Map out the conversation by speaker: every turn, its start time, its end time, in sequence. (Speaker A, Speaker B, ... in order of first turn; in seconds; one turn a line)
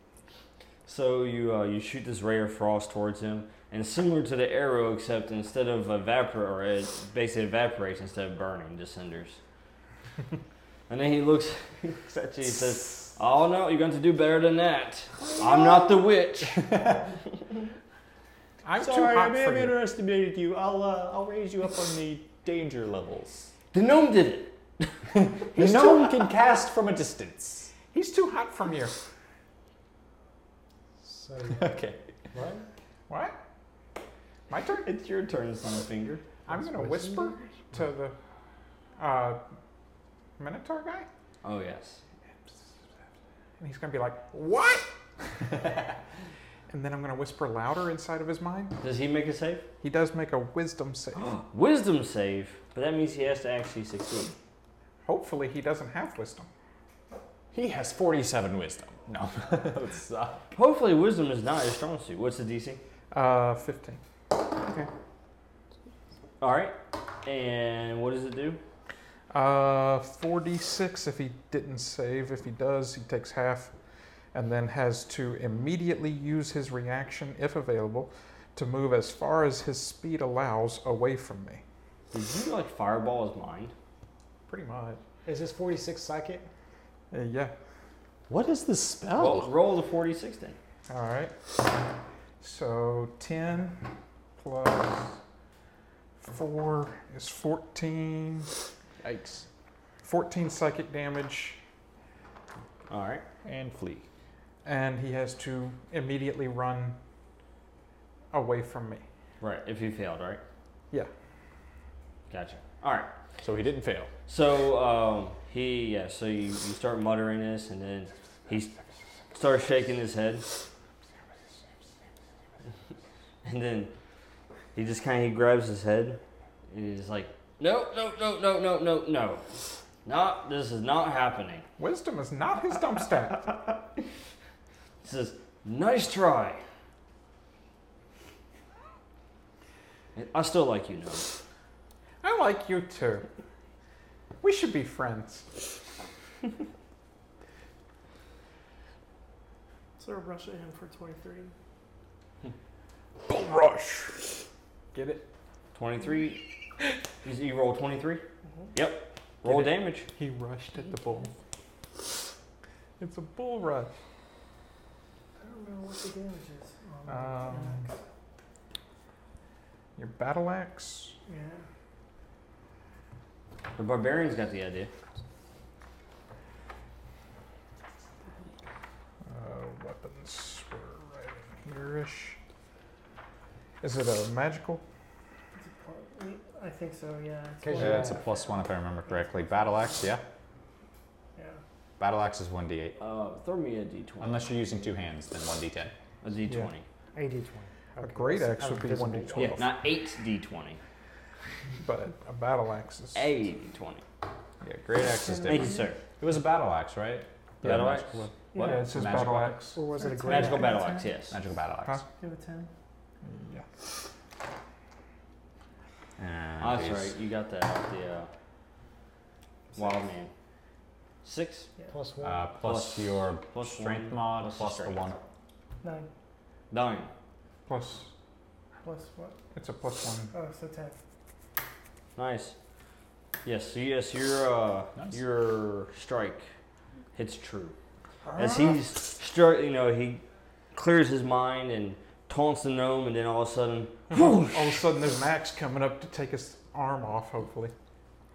Speaker A: 0.8-9.4
Speaker A: 10.9-16.6
Speaker B: 16.4-17.1
Speaker C: 18.6-19.8
Speaker B: 18.8-23.5
Speaker A: 23.7-26.2
Speaker B: 25.1-27.7
Speaker C: 27.9-28.9
Speaker D: 31.0-31.7
Speaker B: 31.5-32.0
Speaker D: 32.3-32.6
Speaker C: 33.1-33.4
Speaker C: 34.5-34.9
Speaker A: 34.8-36.2
Speaker C: 36.5-38.1
Speaker D: 36.5-37.5
Speaker C: 39.0-39.4
Speaker C: 40.4-41.1
Speaker A: 41.4-42.0
Speaker C: 42.4-42.7
Speaker C: 43.6-44.9
Speaker C: 46.7-48.7
Speaker A: 48.8-49.7
Speaker C: 49.8-51.3
Speaker A: 51.1-54.3
Speaker C: 55.0-56.5
Speaker B: 57.5-60.4
Speaker A: 60.5-62.8
Speaker C: 63.1-64.0
Speaker A: 64.6-64.9
Speaker A: 66.4-68.6
Speaker C: 69.3-73.7
Speaker C: 74.3-81.6
Speaker A: 82.1-83.7
Speaker C: 84.5-85.0
Speaker D: 85.2-86.5
Speaker C: 87.1-87.5
Speaker B: 88.3-89.5
Speaker A: 89.2-90.6
Speaker C: 90.9-91.3
Speaker C: 92.4-93.8
Speaker C: 94.4-95.2
Speaker C: 96.2-98.5
Speaker B: 99.0-99.5
Speaker C: 100.0-101.6
Speaker A: 102.9-103.2
Speaker B: 103.4-104.1
Speaker C: 104.6-107.0
Speaker C: 108.3-109.0
Speaker A: 109.4-110.4
Speaker A: 112.3-113.1
Speaker B: 113.4-114.1
Speaker A: 114.3-118.7
Speaker A: 119.3-120.5
Speaker A: 123.4-123.9
Speaker A: 124.7-126.2
Speaker A: 126.7-129.5
Speaker A: 130.0-131.7
Speaker C: 131.8-133.5
Speaker A: 135.0-136.6
Speaker A: 140.1-141.3
Speaker C: 142.2-143.3
Speaker C: 144.4-145.6
Speaker E: 150.0-151.5
Speaker C: 153.3-154.4
Speaker C: 154.9-155.3
Speaker A: 155.7-156.5
Speaker A: 157.2-160.1
Speaker C: 159.4-161.3
Speaker C: 163.0-163.9
Speaker E: 165.4-168.0
Speaker C: 167.1-167.8
Speaker C: 170.0-171.1
Speaker E: 171.3-171.7
Speaker A: 173.8-174.9
Speaker C: 179.3-182.4
Speaker C: 183.8-184.8
Speaker E: 185.6-188.4
Speaker D: 187.6-188.2
Speaker B: 187.8-190.2
Speaker E: 189.2-189.7
Speaker E: 191.3-191.6
Speaker B: 192.0-193.0
Speaker A: 193.0-194.5
Speaker B: 194.2-195.9
Speaker A: 196.2-196.8
Speaker D: 197.1-199.6
Speaker C: 198.0-199.8
Speaker A: 199.4-200.8
Speaker C: 201.8-203.3
Speaker A: 203.1-204.0
Speaker B: 204.6-209.6
Speaker E: 205.1-205.9
Speaker A: 205.4-206.0
Speaker A: 207.6-208.8
Speaker E: 208.5-209.0
Speaker C: 208.6-209.8
Speaker D: 209.8-210.9
Speaker E: 209.8-211.2
Speaker A: 210.2-211.4
Speaker B: 211.3-212.0
Speaker E: 212.2-212.7
Speaker C: 213.2-213.7
Speaker B: 216.2-217.1
Speaker A: 216.6-218.3
Speaker A: 219.7-220.3
Speaker A: 221.2-221.7
Speaker D: 221.9-222.4
Speaker B: 222.2-225.2
Speaker A: 222.6-225.1
Speaker E: 225.8-226.1
Speaker A: 226.7-227.1
Speaker C: 227.7-228.1
Speaker E: 228.8-229.4
Speaker C: 229.5-230.3
Speaker E: 230.3-230.9
Speaker A: 232.2-232.6
Speaker A: 233.4-236.5
Speaker A: 237.1-237.8
Speaker C: 238.2-238.8
Speaker A: 238.4-240.2
Speaker A: 240.7-244.8
Speaker C: 244.1-247.7